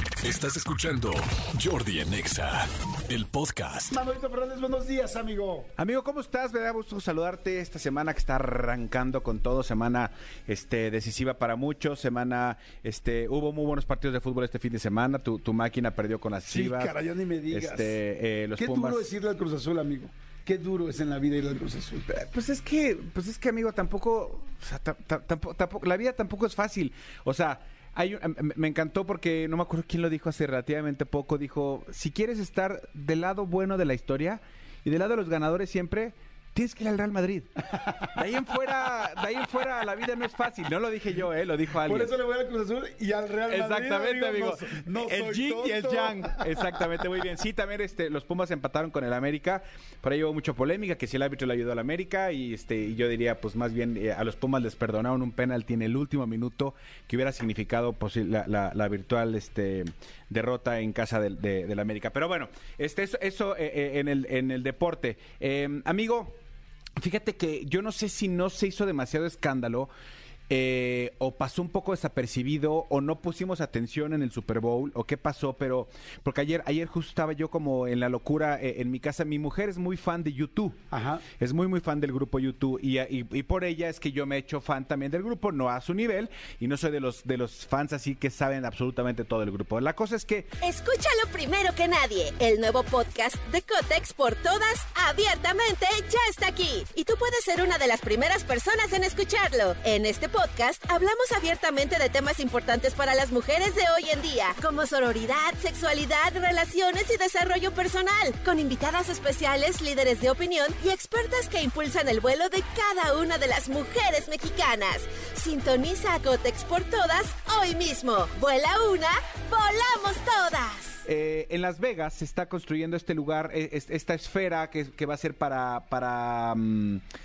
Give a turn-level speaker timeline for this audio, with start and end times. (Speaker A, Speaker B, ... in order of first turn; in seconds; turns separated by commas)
Speaker A: 0.2-4.0, Speaker B: 3.9-5.7, Speaker C: 5.8-16.9, Speaker B: 16.4-18.0, Speaker C: 17.5-19.0, Speaker B: 18.6-22.1, Speaker C: 22.1-37.6, Speaker C: 38.1-42.1, Speaker B: 41.8-46.7, Speaker C: 43.5-66.4, Speaker C: 67.0-69.9, Speaker C: 70.5-80.8, Speaker B: 80.9-81.2, Speaker C: 81.4-90.5, Speaker D: 90.6-121.0, Speaker C: 121.0-127.0